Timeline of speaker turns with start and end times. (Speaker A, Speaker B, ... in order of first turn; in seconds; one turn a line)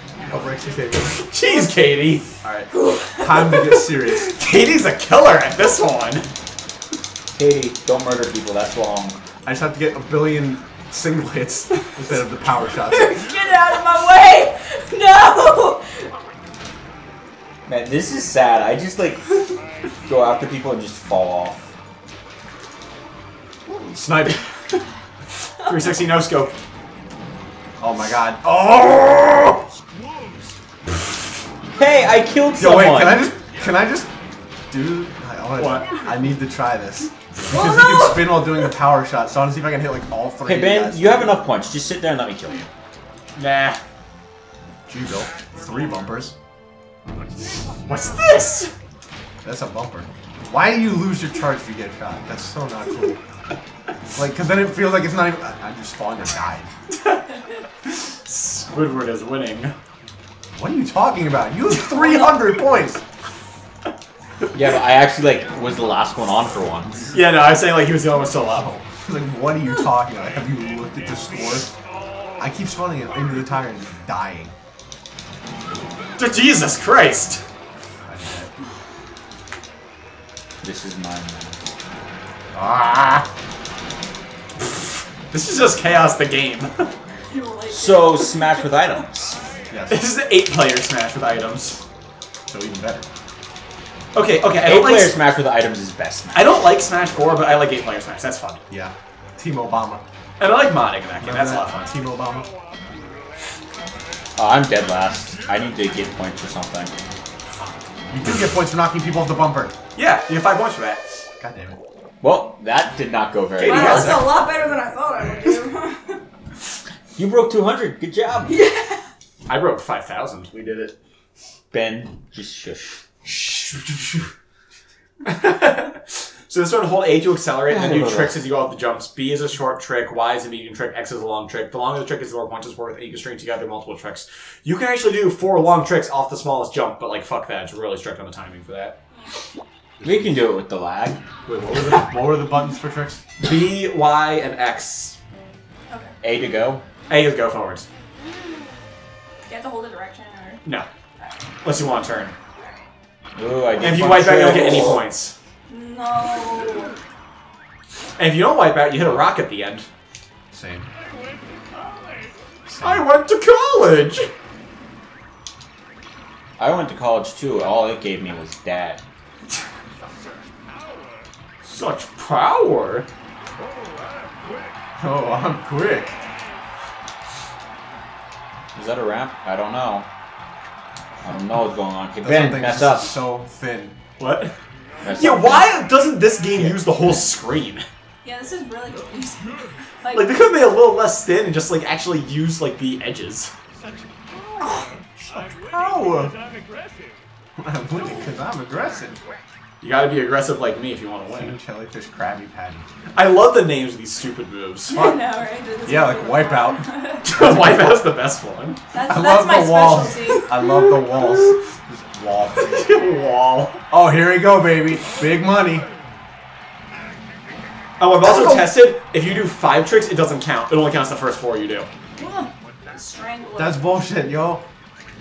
Speaker A: 0.2-1.2
Speaker B: 1.1-2.4
Speaker A: 2.4-4.3
Speaker C: 2.7-3.6
Speaker B: 4.1-6.3
Speaker D: 7.3-9.2
Speaker A: 9.4-13.2
Speaker C: 12.9-16.1
Speaker D: 17.6-19.2
Speaker D: 20.0-21.7
Speaker A: 23.7-24.4
Speaker B: 25.6-26.5
Speaker A: 27.8-29.6
Speaker D: 31.8-33.3
Speaker A: 32.6-34.1
Speaker A: 34.7-41.4
Speaker B: 35.6-35.9
Speaker C: 37.5-38.6
Speaker D: 40.4-42.7
Speaker B: 43.3-43.8
Speaker A: 44.9-46.3
Speaker B: 47.8-48.7
Speaker A: 49.4-53.2
Speaker A: 54.1-56.7
Speaker B: 58.2-59.7
Speaker A: 60.5-63.0
Speaker C: 61.8-62.4
Speaker D: 64.5-67.1
Speaker B: 67.1-68.8
Speaker A: 69.0-71.7
Speaker A: 72.4-74.5
Speaker B: 76.2-77.4
Speaker A: 78.0-78.5
Speaker D: 80.6-81.6
Speaker A: 82.5-83.2
Speaker B: 85.3-86.9
Speaker C: 87.3-88.7
Speaker D: 87.7-89.4
Speaker A: 89.7-90.0
Speaker B: 89.9-91.8
Speaker A: 92.5-93.1
Speaker B: 94.1-95.2
Speaker D: 94.6-96.5
Speaker B: 96.3-98.6
Speaker A: 98.7-100.0
Speaker B: 100.4-101.9
Speaker A: 101.2-102.5
Speaker D: 104.3-106.9
Speaker A: 108.1-109.8
Speaker B: 109.9-111.0
Speaker A: 111.4-111.8
Speaker D: 112.2-114.2
Speaker B: 113.6-114.3
Speaker C: 113.6-116.2
Speaker D: 117.2-118.5
Speaker C: 118.5-119.0
Speaker B: 119.5-120.6
Speaker A: 120.6-120.9
Speaker D: 121.7-123.0
Speaker B: 123.3-123.6
Speaker B: 125.2-139.0
Speaker D: 127.7-128.4
Speaker A: 140.0-140.4
Speaker D: 140.0-141.2
Speaker A: 141.4-143.2
Speaker B: 143.4-145.2
Speaker C: 145.9-146.1
Speaker D: 146.2-146.8
Speaker B: 147.1-147.9
Speaker C: 149.5-150.6
Speaker C: 151.2-151.5
Speaker B: 151.6-152.3
Speaker C: 152.6-152.9
Speaker D: 153.3-155.0
Speaker B: 153.8-155.3
Speaker C: 155.7-156.9
Speaker B: 158.2-159.9
Speaker A: 160.5-160.9
Speaker A: 162.7-163.1
Speaker B: 162.8-164.3
Speaker D: 166.6-169.0
Speaker B: 171.6-173.1
Speaker A: 175.0-176.2
Speaker D: 178.7-180.1
Speaker D: 181.2-183.2
Speaker A: 182.2-184.0
Speaker B: 184.2-184.5
Speaker D: 185.0-185.7
Speaker B: 185.1-187.8
Speaker C: 188.2-190.3
Speaker B: 190.1-193.5
Speaker A: 194.6-196.4
Speaker A: 197.6-199.2
Speaker B: 199.8-201.6
Speaker A: 201.3-202.8
Speaker B: 203.1-205.1
Speaker C: 204.9-207.4
Speaker A: 205.8-208.0
Speaker B: 207.2-208.8
Speaker C: 208.9-210.6
Speaker A: 209.1-212.9
Speaker B: 210.6-211.5
Speaker B: 212.6-213.8
Speaker A: 213.9-215.8
Speaker B: 218.0-221.9
Speaker C: 222.2-223.8
Speaker A: 223.6-224.6